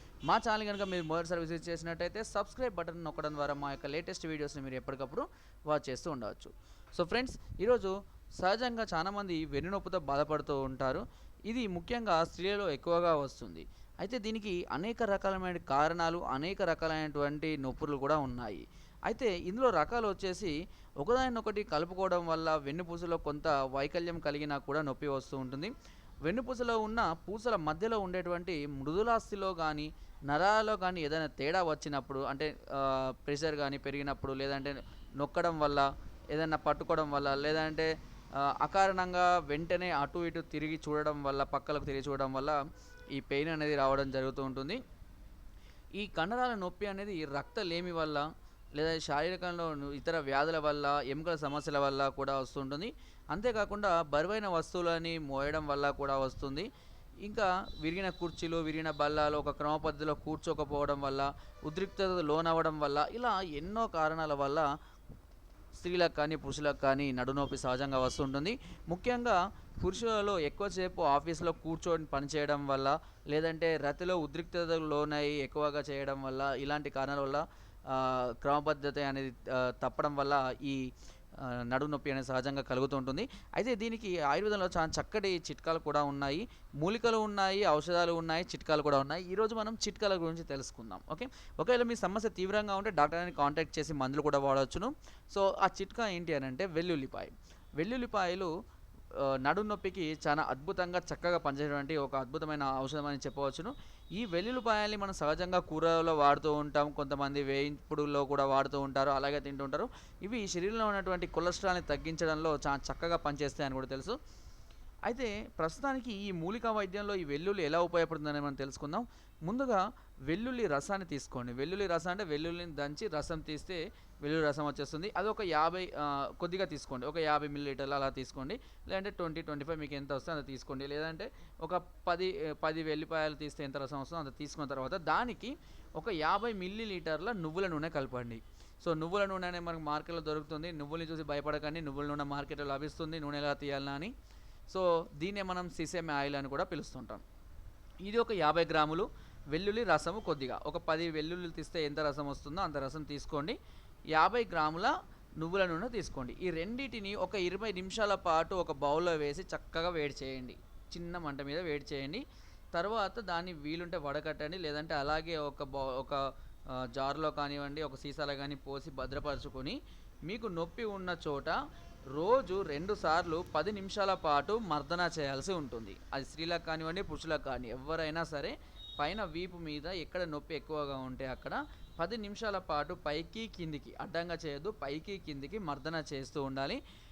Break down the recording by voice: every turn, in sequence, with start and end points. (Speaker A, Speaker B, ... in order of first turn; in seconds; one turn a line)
Speaker A: 0.3-25.7
Speaker A: 26.3-42.6
Speaker A: 43.1-44.8
Speaker A: 46.0-56.7
Speaker A: 57.2-64.7
Speaker A: 65.8-80.8
Speaker A: 81.4-98.5
Speaker A: 99.2-114.2
Speaker A: 115.1-144.1
Speaker A: 144.7-147.2
Speaker A: 148.0-153.6
Speaker A: 154.1-162.2
Speaker A: 162.7-171.6
Speaker A: 172.1-186.8